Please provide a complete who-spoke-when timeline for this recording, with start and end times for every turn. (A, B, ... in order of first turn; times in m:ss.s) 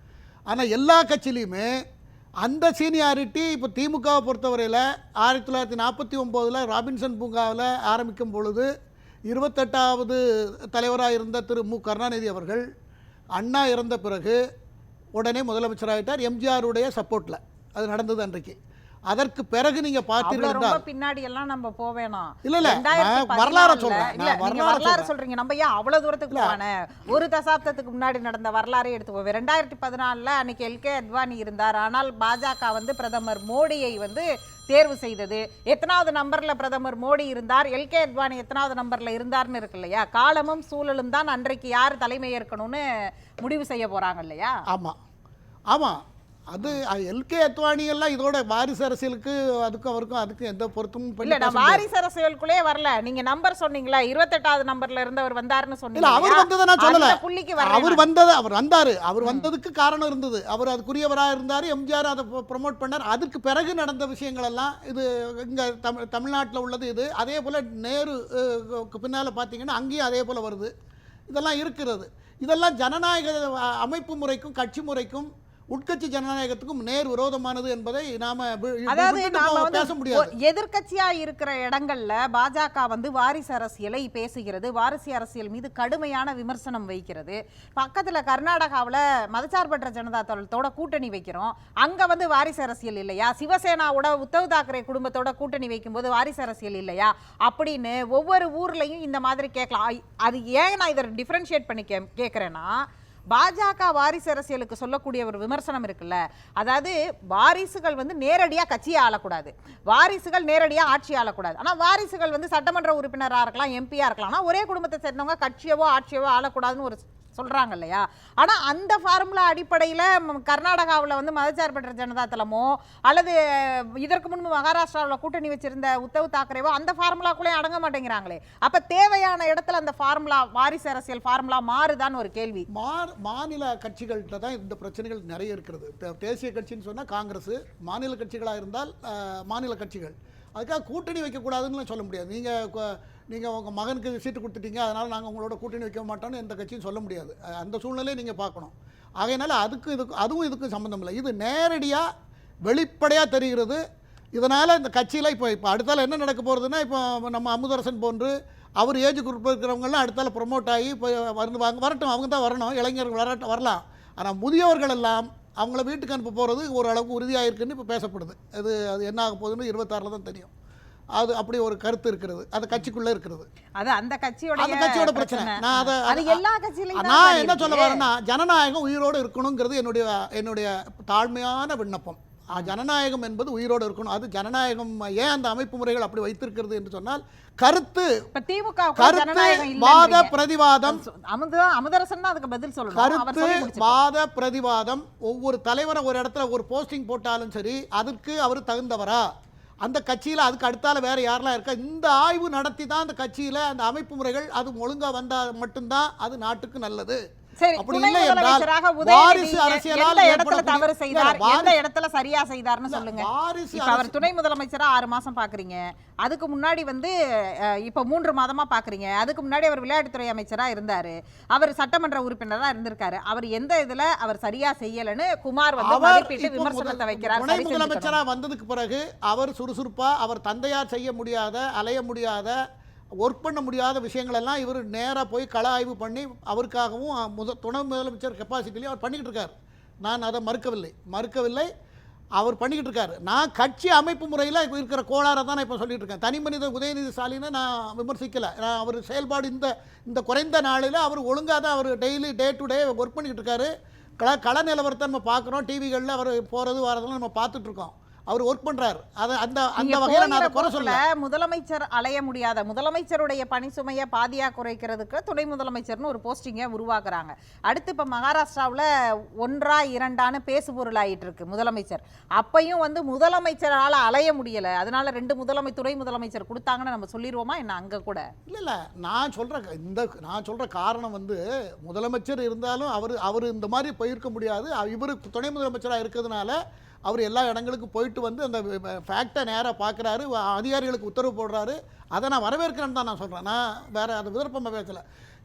0:00.5-0:01.7 A
0:02.4-0:08.7 A
0:09.3-0:10.2 A
0:10.7-0:12.6 A
0:13.4-0:14.4 A
0:15.2-0:18.6 A
0:19.1-0:20.8 A
0:20.2-0:42.8 B
0:22.4-0:25.1 A
0:26.3-0:26.6 A
0:43.4-0:44.5 B
0:45.7-0:46.0 A
0:46.5-0:51.8 A
0:51.2-0:58.0 B
0:56.0-1:10.7 A
0:59.2-0:59.5 B
1:11.3-1:20.3 A
1:18.9-1:42.7 B
1:43.3-2:12.6 B
2:12.7-2:32.0 A
2:32.6-2:33.8 A
2:34.3-2:50.5 A
2:51.2-2:53.5 A
2:53.8-2:58.0 B
2:54.6-2:56.4 A
2:57.0-3:08.1 A
3:08.3-3:10.3 B
3:09.0-3:11.0 A
3:10.8-3:14.0 B
3:12.9-3:19.2 A
3:19.8-3:27.2 A
3:27.6-3:37.1 B
3:27.8-3:31.8 A
3:32.9-3:34.3 A
3:37.8-3:48.2 B
3:45.8-3:52.6 A
3:53.2-4:01.7 A
4:02.4-4:21.0 A
4:19.8-4:28.8 B
4:29.4-4:38.2 B
4:38.5-4:55.0 A